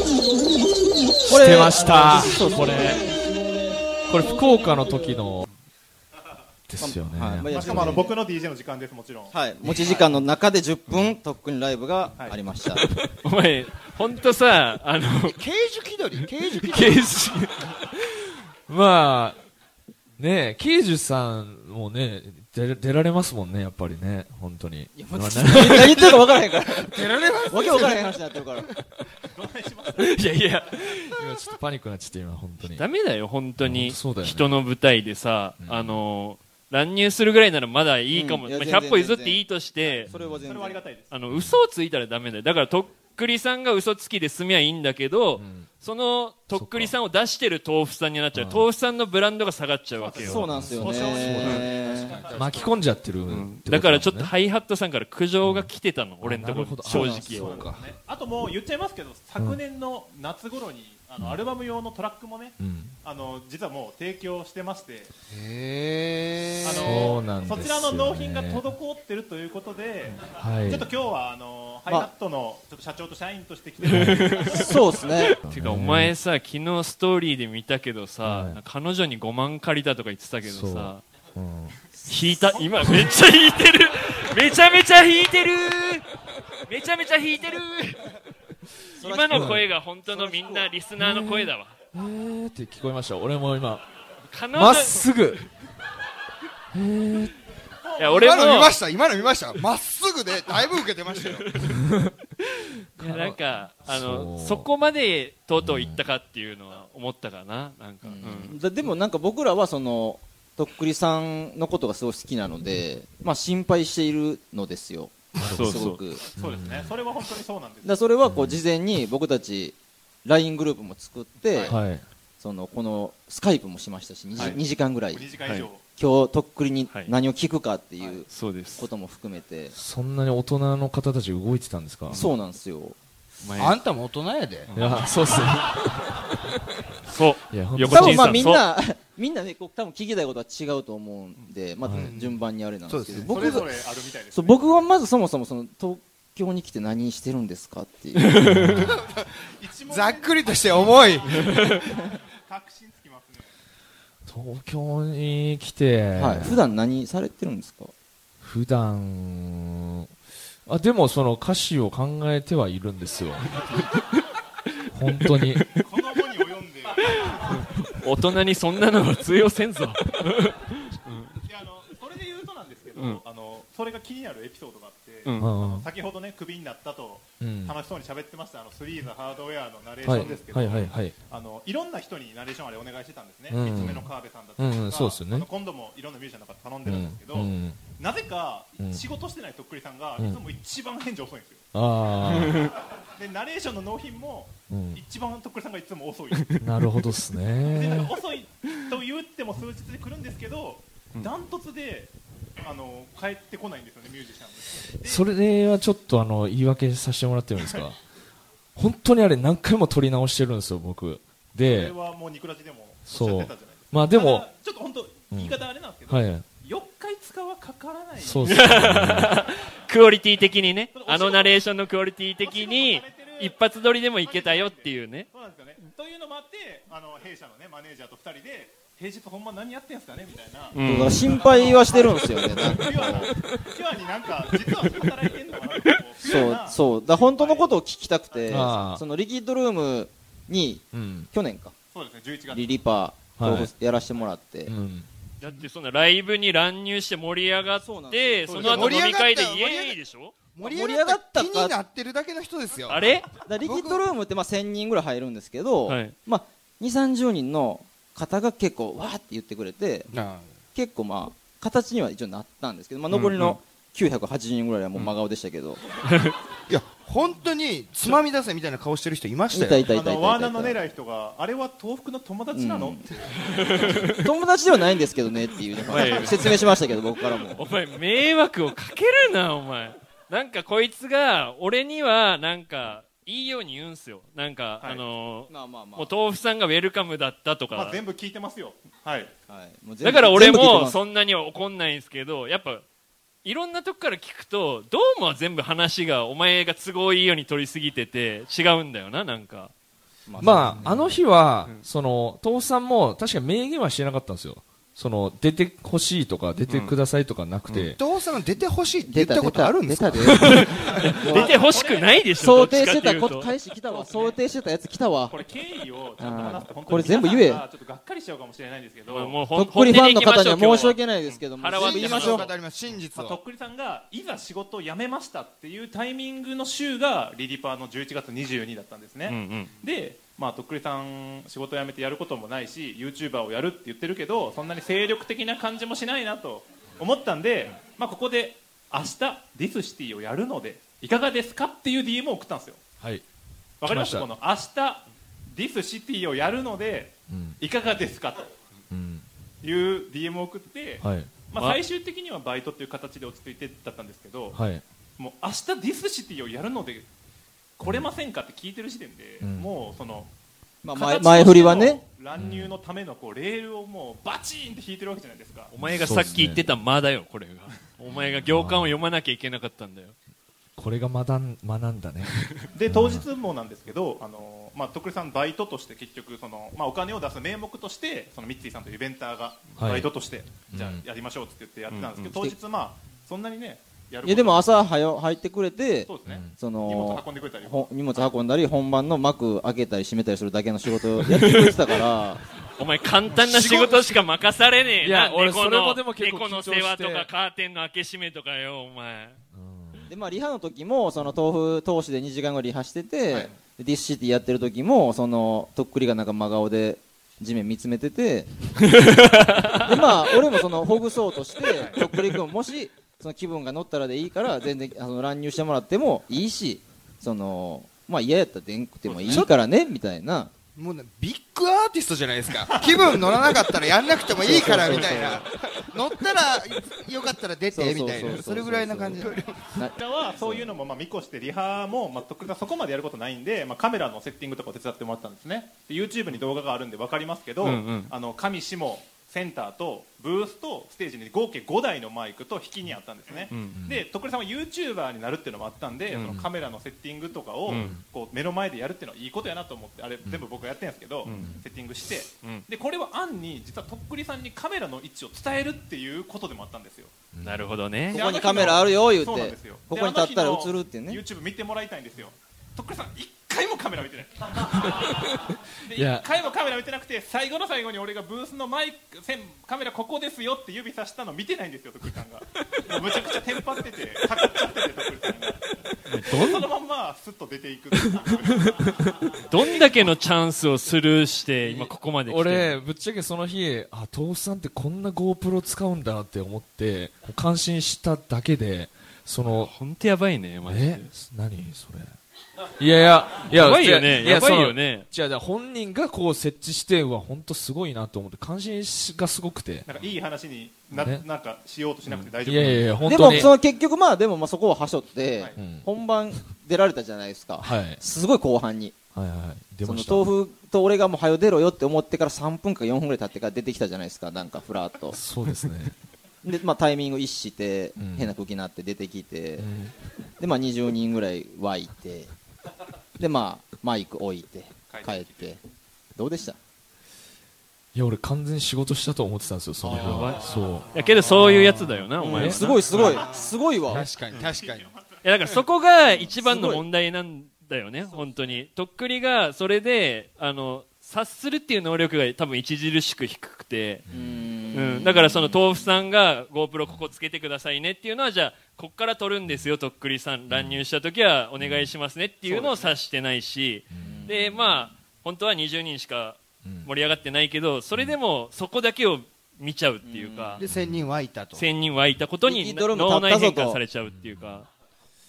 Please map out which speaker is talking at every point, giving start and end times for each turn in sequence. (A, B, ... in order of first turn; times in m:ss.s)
0:01.2-0:03.0 A
0:01.2-0:03.0 B
0:02.6-0:02.9 C
0:04.0-0:05.4 B
0:06.7-0:08.0 B
0:06.8-0:08.1 A
0:07.4-0:10.0 D
0:09.3-0:12.8 A
0:13.2-0:15.4 C
0:15.2-0:17.1 E
0:16.7-0:19.4 B
0:20.2-0:26.2 B
0:24.9-0:28.7 A
0:26.8-0:28.7 E
0:29.2-0:30.2 D
0:30.0-0:32.8 B
0:32.7-0:40.1 C
0:33.6-0:34.5 B
0:35.6-0:36.0 B
0:38.1-0:39.4 A
0:39.8-0:41.1 D
0:40.1-0:40.8 A
0:40.1-0:40.4 B
0:41.1-0:50.4 C
0:41.3-0:41.6 B
0:45.4-0:45.7 B
0:46.5-0:46.9 B
0:48.3-0:48.6 B
0:50.0-0:53.0 D
0:50.2-0:52.2 A
0:50.4-0:54.3 B
0:53.3-0:57.6 C
0:55.4-0:55.7 B
0:56.2-0:57.9 B
0:56.8-0:57.7 A
0:57.1-1:05.1 D
1:02.6-1:03.0 B
1:05.3-1:07.0 E
1:06.6-1:15.3 D
1:06.8-1:08.6 B
1:10.2-1:10.9 B
1:13.8-1:21.0 C
1:13.8-1:14.3 B
1:14.5-1:15.3 A
1:15.4-1:16.1 B
1:18.2-1:18.6 B
1:20.4-1:21.8 B
1:21.9-1:23.0 A
1:22.1-1:26.1 C
1:22.5-1:23.5 D
1:26.6-1:28.1 C
1:28.9-1:31.8 C
1:29.0-1:30.7 A
1:29.3-1:29.6 B
1:31.0-1:33.8 B
1:34.3-1:35.5 C
1:34.5-1:35.4 B
1:36.7-1:37.3 B
1:37.8-1:38.6 D
1:38.0-1:38.7 C
1:38.1-1:41.5 E
1:41.3-1:41.7 C
1:41.7-1:42.1 B
1:42.4-1:48.6 C
1:43.0-1:44.7 B
1:45.6-1:46.0 B
1:48.0-1:56.2 A
1:55.4-1:56.9 B
1:55.5-1:56.0 C
1:56.4-1:58.0 D
1:57.8-2:01.8 A
1:58.2-1:58.6 B
2:01.7-2:02.0 B
2:02.4-2:05.2 A
2:04.4-2:05.8 D
2:06.0-2:09.7 A
2:08.3-2:08.9 C
2:09.7-2:12.2 B
2:12.1-2:13.0 A
2:13.4-2:13.8 C
2:13.6-2:14.7 E
2:14.7-2:15.1 C
2:14.8-2:16.6 B
2:17.0-2:18.6 C
2:17.5-2:18.5 B
2:17.8-2:23.7 A
2:21.8-2:22.1 B
2:22.0-2:23.7 E
2:23.3-2:24.6 D
2:24.3-2:28.6 A
2:28.2-2:28.8 C
2:28.4-2:29.0 B
2:28.8-2:33.5 D
2:28.8-2:31.9 E
2:34.2-2:36.6 B
2:36.1-2:37.9 A
2:38.4-2:40.1 B
2:40.6-2:43.8 B
2:44.9-2:45.7 B
2:45.2-2:45.7 C
2:45.8-2:47.6 D
2:47.1-2:51.4 C
2:51.4-3:11.6 D
2:53.0-2:53.2 C
2:55.2-2:55.5 C
2:55.4-2:55.9 B
2:57.4-2:57.7 B
3:00.0-3:01.2 B
3:03.5-3:05.5 B
3:06.8-3:07.8 B
3:08.8-3:09.0 B
3:10.2-3:10.4 B
3:11.7-3:12.7 B
3:12.3-3:16.6 D
3:14.7-3:15.0 B
3:16.6-3:18.1 B
3:17.6-3:25.3 D
3:25.0-3:28.0 B
3:28.8-3:31.9 B
3:31.6-3:38.9 D
3:33.1-3:34.5 B
3:35.3-3:36.4 B
3:38.2-3:39.4 B
3:38.4-3:45.3 C
3:40.9-3:41.6 D
3:42.4-3:43.6 D
3:44.2-3:57.7 D
3:50.7-3:51.3 C
3:50.8-3:53.3 A
3:52.6-3:53.3 C
3:54.5-3:55.1 C
3:56.2-4:01.7 A
3:58.4-3:58.6 D
3:58.5-3:59.0 B
4:00.9-4:01.3 B
4:01.9-4:02.8 D
4:02.5-4:04.7 A
4:03.4-4:03.7 B
4:04.7-4:05.1 B
4:05.4-4:10.3 C
4:07.8-4:08.9 A
4:08.5-4:09.0 D
4:08.6-4:10.0 E
4:10.5-4:14.0 E
4:10.6-4:11.7 A
4:12.9-4:13.3 C
4:13.4-4:20.1 A
4:15.9-4:16.1 C
4:20.1-4:20.5 E
4:20.7-4:25.8 A
4:23.1-4:23.6 C
4:26.0-4:26.4 C
4:26.7-4:29.9 E
4:29.5-4:30.8 A
4:29.9-4:34.2 D
4:32.5-4:33.0 A
4:33.4-4:34.2 C
4:33.8-4:37.6 A
4:35.9-4:36.8 C
4:36.0-4:36.3 D
4:37.4-4:48.0 C
4:45.5-4:46.1 A
4:47.7-4:49.3 D
4:49.5-4:51.0 A
4:50.0-4:52.8 C
4:53.4-4:59.7 C
5:00.3-5:01.1 A
5:00.4-5:08.0 B
5:00.5-5:01.0 E
5:06.7-5:06.9 C
5:08.0-5:11.0 E
5:09.0-5:11.6 A
5:10.2-5:13.5 C
5:10.9-5:12.2 D
5:12.4-5:15.4 A
5:13.8-5:14.4 D
5:15.3-5:19.4 D
5:16.2-5:17.6 A
5:19.1-5:22.5 C
5:19.5-5:22.5 A
5:21.8-5:23.4 E
5:22.2-5:22.5 D
5:23.1-5:42.8 D
5:29.3-5:29.7 C
5:43.0-5:43.2 B
5:43.8-5:48.6 D
5:43.8-5:44.3 B
5:47.3-5:47.6 B
5:48.9-5:49.2 B
5:49.6-5:54.6 D
5:51.0-5:51.3 B
5:54.5-5:54.8 B
5:55.2-5:57.1 D
5:57.8-6:00.3 D
5:59.4-5:59.7 B
6:00.8-6:02.0 A
6:00.9-6:05.7 D
6:02.3-6:02.8 B
6:05.7-6:10.2 C
6:05.8-6:06.7 B
6:08.3-6:08.9 B
6:10.8-6:13.3 B
6:12.2-6:12.6 C
6:12.7-6:24.7 D
6:19.8-6:20.1 B
6:20.7-6:21.0 B
6:21.9-6:22.3 C
6:24.2-6:32.4 A
6:26.1-6:27.9 D
6:26.2-6:26.6 B
6:31.3-6:31.8 C
6:32.8-6:39.4 C
6:33.4-6:34.1 B
6:35.0-6:37.3 B
6:39.6-6:40.1 B
6:40.1-6:48.5 A
6:48.8-6:49.9 C
6:49.8-7:00.5 A
6:51.8-6:52.0 D
6:59.0-6:59.5 D
7:00.8-7:09.8 E
7:02.8-7:03.1 D
7:04.4-7:05.4 A
7:04.9-7:05.3 D
7:07.7-7:10.7 A
7:09.9-7:37.1 D
7:17.6-7:18.1 C
7:23.5-7:23.8 C
7:23.7-7:24.0 B
7:26.1-7:26.4 C
7:27.7-7:27.9 C
7:27.7-7:28.0 B
7:31.3-7:31.6 B
7:37.3-7:37.6 B
7:37.4-7:38.2 C
7:38.1-8:00.1 D
7:38.1-7:41.2 A
7:44.8-7:46.2 B
7:56.1-7:56.7 C
7:58.8-7:59.1 B
7:59.4-8:02.8 C
8:02.3-8:09.7 B
8:09.6-8:11.1 C
8:10.6-8:12.1 B
8:12.8-8:19.9 B
8:13.5-8:15.1 C
8:19.8-8:23.4 D
8:20.9-8:21.2 B
8:22.1-8:23.5 B
8:23.0-8:29.0 A
8:25.5-8:25.8 B
8:27.6-8:28.0 B
8:29.1-8:30.3 B
8:29.8-8:35.2 A
8:35.1-8:35.9 B
8:36.4-8:39.7 A
8:38.0-8:38.3 B
8:39.6-8:40.0 B
8:40.4-8:42.3 A
8:43.2-8:45.6 A
8:44.9-8:45.5 D
8:46.2-8:46.6 A
8:47.9-8:51.8 B
8:49.8-8:50.6 D
8:49.9-8:53.2 C
8:52.2-8:54.1 A
8:52.3-8:52.7 B
8:52.9-8:54.9 E
8:54.3-8:55.6 D
8:55.2-9:04.0 C
8:56.1-8:56.8 A
9:04.1-9:04.3 B
9:04.1-9:05.6 A
9:04.7-9:20.6 C
9:10.5-9:10.8 B
9:11.6-9:11.9 B
9:12.4-9:12.9 A
9:13.9-9:14.4 B
9:14.0-9:14.6 A
9:16.6-9:16.9 B
9:20.0-9:20.6 A
9:20.6-9:21.6 E
9:20.6-9:21.0 B
9:21.6-9:24.7 C
9:22.4-9:23.8 A
9:24.1-9:24.6 B